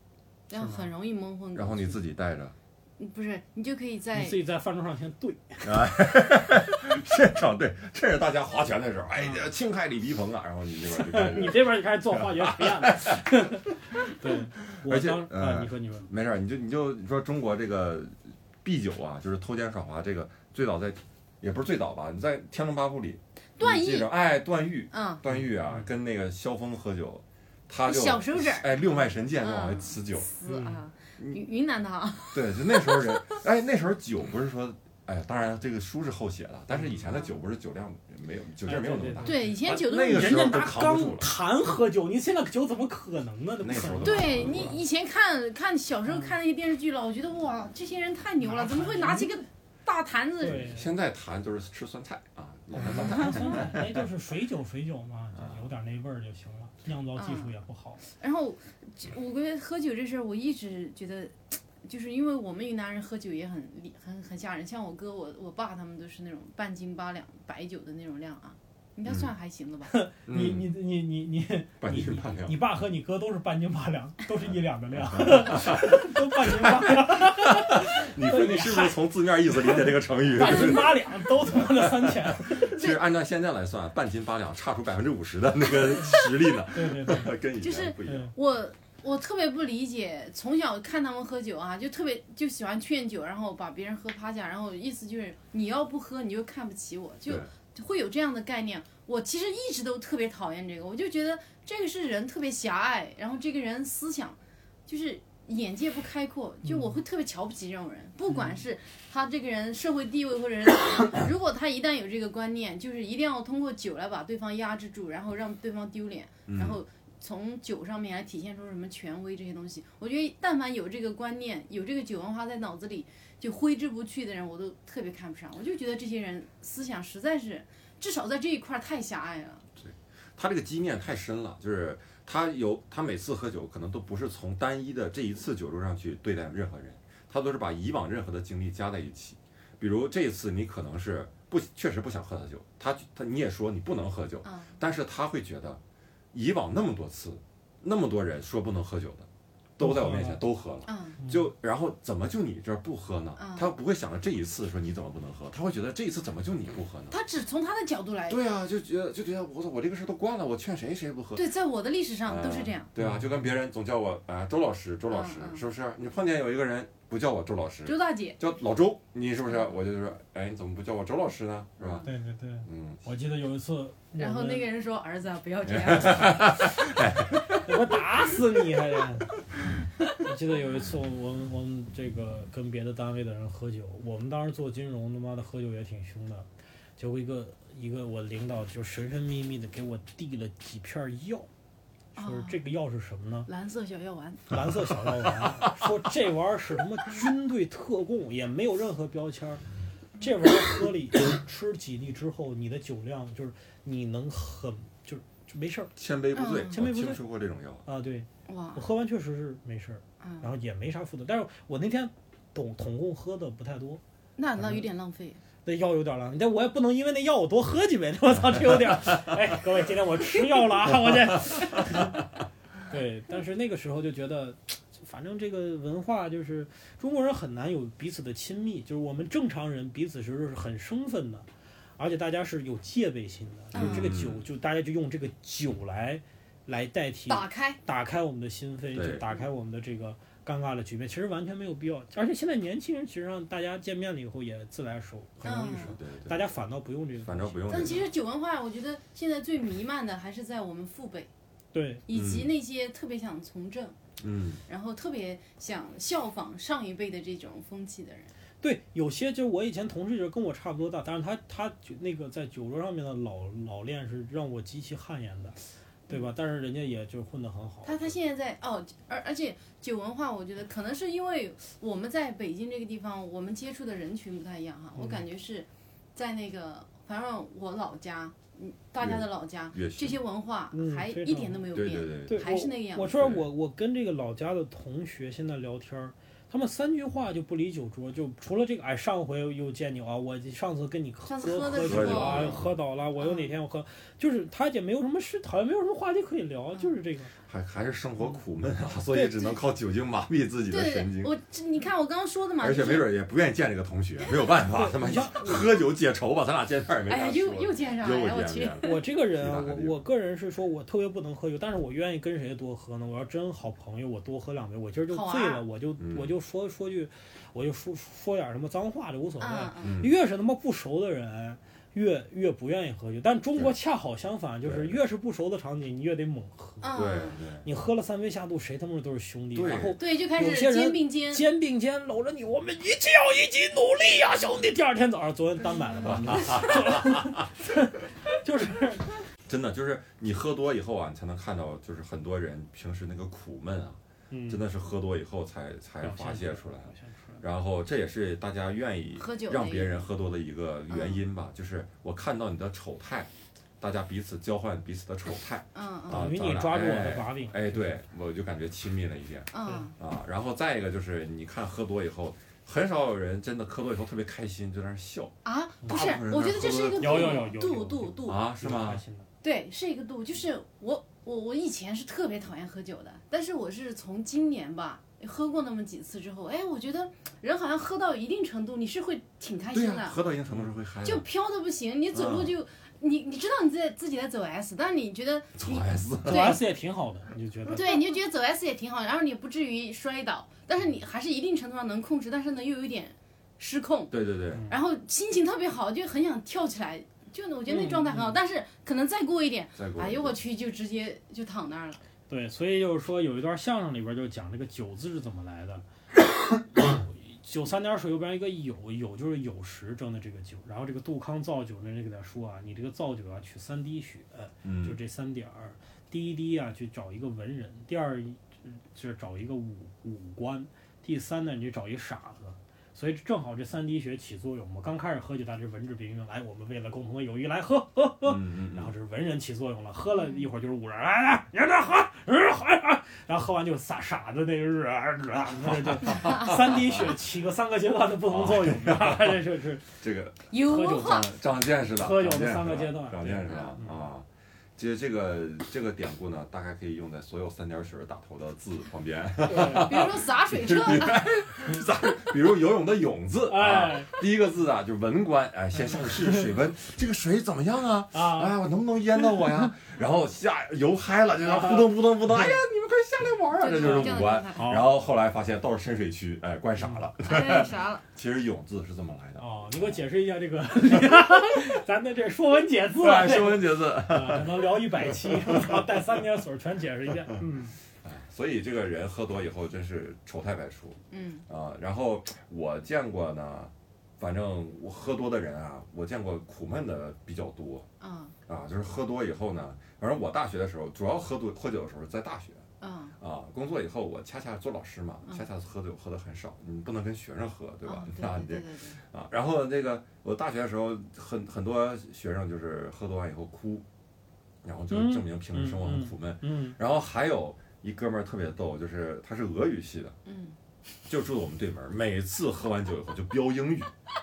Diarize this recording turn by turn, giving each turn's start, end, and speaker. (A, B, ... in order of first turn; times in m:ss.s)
0:00.5-0:02.0 A
0:00.6-0:00.9 B
0:01.6-0:02.6 C
0:03.0-0:04.4 A
0:04.1-0:05.9 B
0:05.6-0:13.3 C
0:09.2-0:09.4 B
0:10.9-0:16.1 B
0:14.8-0:30.3 C
0:23.6-0:24.1 A
0:24.9-0:25.2 A
0:27.8-0:33.4 A
0:30.4-0:30.8 B
0:32.3-0:41.3 C
0:37.0-0:37.3 A
0:38.6-0:44.8 B
0:39.2-0:40.6 A
0:43.6-0:44.8 C
0:44.0-0:50.7 A
0:46.1-0:46.4 B
0:48.4-0:49.4 B
0:50.4-0:50.9 B
0:50.5-0:54.0 C
0:52.8-0:58.0 B
0:55.4-0:55.6 C
0:57.2-1:09.9 A
1:09.9-1:19.0 B
1:10.3-1:10.7 C
1:11.8-1:12.6 C
1:15.1-1:28.3 C
1:19.7-1:22.8 B
1:26.7-1:27.3 B
1:27.6-2:09.6 A
1:28.1-1:28.3 B
1:46.6-1:47.0 B
1:48.3-1:48.6 B
1:56.5-1:56.8 C
2:09.8-2:25.8 C
2:24.4-2:24.8 A
2:26.3-2:37.2 C
2:29.8-2:30.4 B
2:30.9-2:31.2 A
2:33.4-2:33.7 A
2:37.1-2:38.4 A
2:38.3-2:41.5 C
2:41.4-2:42.9 A
2:42.3-2:52.1 C
2:43.0-2:43.3 B
2:45.1-2:45.6 A
2:47.9-2:48.4 A
2:51.8-2:52.1 A
2:52.0-2:54.7 B
2:52.7-2:53.0 C
2:54.2-2:56.5 A
2:55.6-2:57.6 C
2:57.6-2:59.3 B
3:00.2-3:11.5 B
3:12.2-3:12.6 A
3:12.2-3:13.5 B
3:13.5-3:14.5 A
3:14.5-3:19.6 B
3:15.2-3:15.7 C
3:20.2-3:25.9 B
3:26.0-3:27.8 C
3:26.4-3:26.7 A
3:26.7-3:27.2 B
3:27.8-3:34.0 B
3:28.5-3:28.8 A
3:30.2-3:30.5 A
3:34.4-3:35.4 A
3:34.6-3:34.9 B
3:35.6-3:42.2 B
3:42.9-3:51.5 B
3:52.0-4:08.0 B
3:53.7-3:54.1 A
3:53.7-3:54.4 C
3:57.3-3:57.8 A
3:58.9-3:59.2 C
4:05.4-4:06.0 A
4:05.7-4:06.4 C
4:07.2-4:08.1 C
4:07.7-4:11.3 A
4:11.7-4:12.0 B
4:12.1-4:14.0 A
4:12.1-4:12.5 C
4:14.2-4:14.6 C
4:14.7-4:18.3 A
4:18.6-4:28.2 B
4:27.8-4:43.2 A
4:35.0-4:35.2 B
4:39.0-4:40.2 C
4:40.7-4:41.6 B
4:41.7-4:42.5 C
4:42.3-4:57.3 B
4:43.1-4:43.4 C
4:51.3-4:52.6 A
4:51.8-4:52.7 C
4:53.2-4:53.5 A
4:57.5-5:01.3 C
4:59.1-4:59.6 B
5:00.7-5:03.1 A
5:02.6-5:10.0 C
5:04.7-5:05.6 B
5:07.1-5:09.0 A
5:08.8-5:26.9 B
5:15.1-5:15.6 A
5:16.0-5:16.3 C
5:19.4-5:19.9 A
5:19.8-5:20.1 C
5:24.6-5:25.0 C
5:26.8-5:27.4 A
5:26.9-5:27.7 C
5:27.6-5:39.1 B
5:29.6-5:30.0 C
5:29.8-5:31.5 A
5:36.0-5:37.4 C
5:39.5-6:05.4 C
5:44.3-5:44.6 B
5:46.0-5:47.4 B
5:49.2-5:50.1 A
5:50.9-5:51.2 A
5:55.8-5:56.3 A
5:56.1-5:57.8 B
5:59.5-6:00.0 A
6:05.4-6:08.4 A
6:05.9-6:07.5 C
6:06.9-6:09.3 B
6:08.2-6:09.0 C
6:09.4-6:20.2 A
6:19.7-6:21.3 C
6:21.0-6:26.6 A
6:22.1-6:22.5 C
6:25.6-6:26.6 C
6:26.2-6:28.0 B
6:27.7-6:42.0 A
6:34.1-6:34.6 C
6:34.5-6:34.8 B
6:37.7-6:38.4 B
6:39.8-6:40.4 C
6:42.3-6:45.8 B
6:46.7-7:19.9 B
6:54.6-6:55.0 C
7:08.2-7:08.9 C
7:10.1-7:10.5 A
7:15.9-7:17.2 C
7:18.3-7:19.5 C
7:20.0-7:49.5 C
7:20.5-7:21.3 A
7:20.6-7:21.2 B
7:21.9-7:24.0 B
7:29.5-7:30.0 B
7:29.5-7:31.3 A
7:33.5-7:34.1 B
7:38.1-7:38.6 B
7:41.5-7:42.0 B
7:43.6-7:44.8 A
7:43.8-7:44.9 B
7:46.8-7:47.0 B
7:47.2-7:48.0 A
7:49.4-7:57.8 B
7:53.0-7:55.9 C
7:58.0-8:07.9 C
8:01.1-8:01.4 A
8:08.0-8:08.4 A
8:08.5-8:12.6 C
8:12.8-8:13.2 A
8:13.2-8:23.9 C
8:17.8-8:19.0 A
8:24.6-8:30.2 C
8:24.9-8:26.8 B
8:30.3-8:30.6 A
8:31.1-8:33.9 C